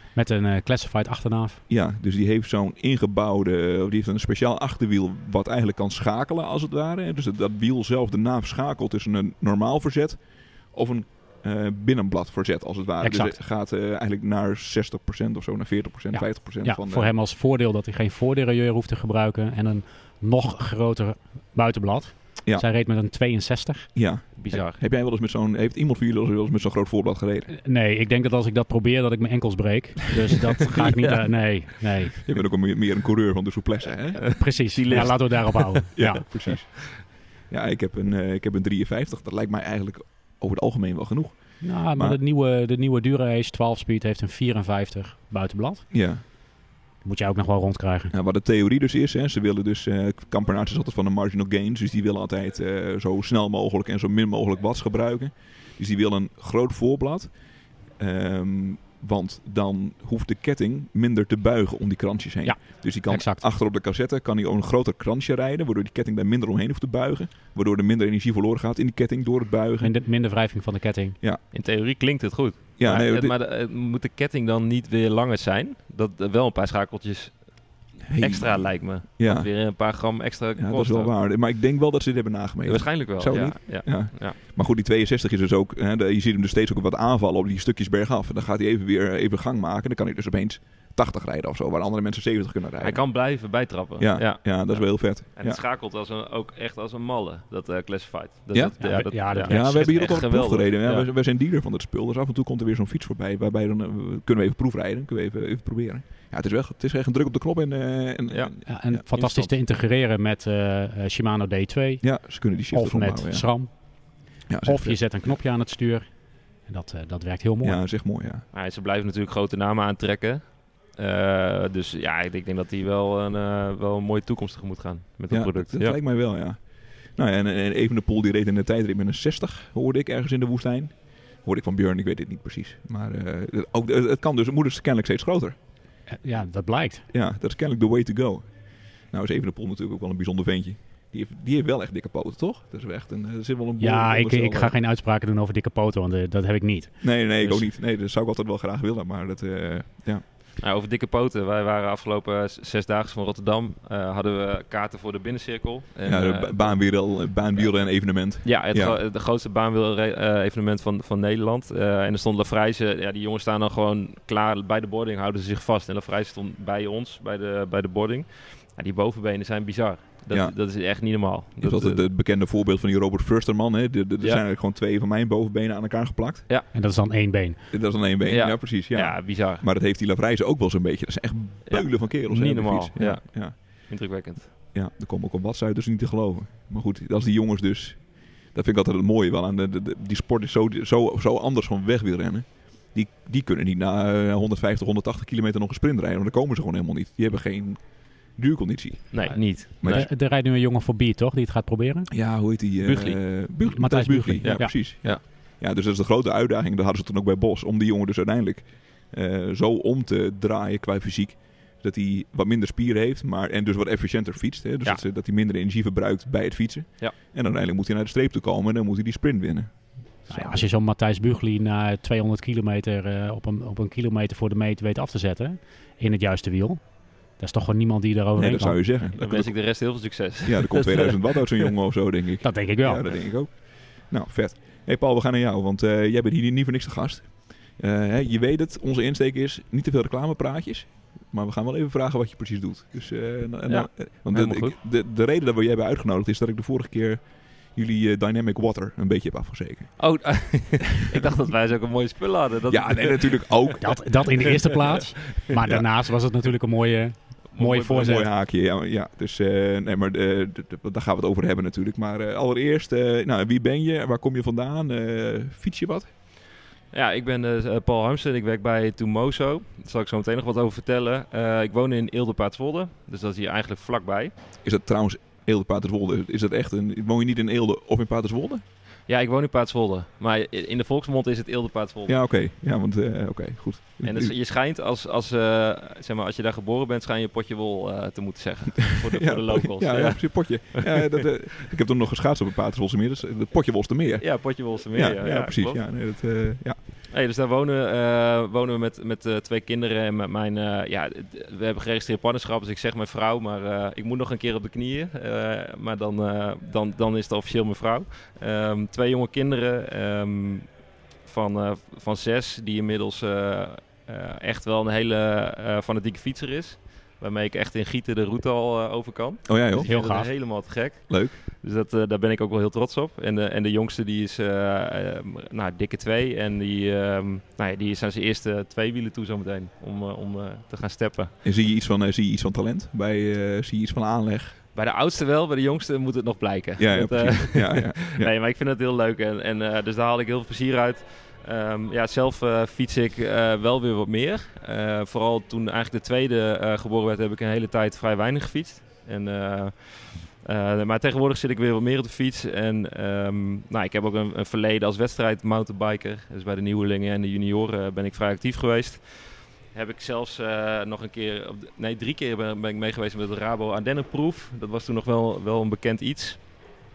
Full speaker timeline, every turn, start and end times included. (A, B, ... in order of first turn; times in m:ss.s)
0:00.2-0:01.6 A
0:01.7-0:10.2 B
0:10.7-0:17.1 B
0:13.0-0:13.4 A
0:16.2-0:23.9 A
0:24.0-0:27.5 B
0:24.4-0:24.8 C
0:27.5-0:32.2 A
0:30.8-0:31.2 C
0:32.2-0:42.2 B
0:34.2-0:36.9 C
0:34.3-0:36.2 A
0:41.6-0:45.9 A
0:45.9-0:46.2 B
0:47.0-0:48.1 A
0:48.1-0:57.3 B
0:58.0-1:09.9 B
1:02.4-1:03.4 A
1:09.8-1:11.2 A
1:11.5-1:17.4 C
1:12.8-1:13.3 B
1:18.1-1:19.5 B
1:18.2-1:21.1 C
1:20.6-1:33.0 B
1:22.6-1:24.4 C
1:32.8-1:41.1 C
1:34.0-1:35.6 B
1:38.5-1:49.0 B
1:38.8-1:40.0 A
1:48.6-1:52.1 A
1:49.1-1:49.5 C
1:52.0-1:53.5 B
1:52.7-1:53.7 A
1:54.5-1:55.0 B
1:54.6-1:56.1 A
1:56.6-1:57.8 A
1:57.6-1:58.4 B
1:58.5-2:06.0 C
2:05.3-2:06.6 B
2:07.1-2:15.6 B
2:16.1-2:17.0 A
2:17.1-2:18.5 B
2:19.1-2:24.7 B
2:23.8-2:27.2 A
2:27.0-2:30.2 B
2:30.6-2:37.7 C
2:36.0-2:39.0 B
2:38.4-2:52.0 C
2:50.3-2:50.6 B
2:51.6-2:56.4 B
2:56.7-2:57.6 A
2:57.7-3:03.6 B
2:58.3-2:59.6 C
3:01.7-3:04.5 C
3:04.7-3:20.1 B
3:19.1-3:20.1 C
3:19.3-3:22.1 A
3:22.1-3:40.6 B
3:22.8-3:23.2 C
3:23.6-3:24.7 A
3:24.4-3:25.2 C
3:40.3-3:46.8 A
3:47.4-3:48.8 A
3:48.4-3:49.6 B
3:49.2-3:51.7 C
3:50.4-4:10.0 B
3:52.4-3:53.1 A
4:03.7-4:04.8 C
4:10.0-4:13.8 C
4:11.0-4:11.3 B
4:12.7-4:14.7 B
4:13.8-4:18.3 A
4:14.4-4:14.9 C
4:15.5-4:16.1 B
4:17.5-4:18.1 C
4:17.9-4:26.1 B
4:26.9-4:34.3 C
4:34.6-4:38.6 B
4:39.1-4:42.2 C
4:42.1-4:44.3 B
4:44.0-4:51.3 C
4:48.9-4:54.3 B
4:54.2-4:55.8 C
4:54.9-4:56.8 B
4:57.1-5:10.7 C
5:11.2-5:31.3 C
5:19.5-5:20.4 B
5:19.8-5:20.3 A
5:21.1-5:21.4 B
5:31.4-5:34.6 B
5:34.8-5:59.0 C
5:36.8-5:38.3 B
5:59.7-6:06.5 C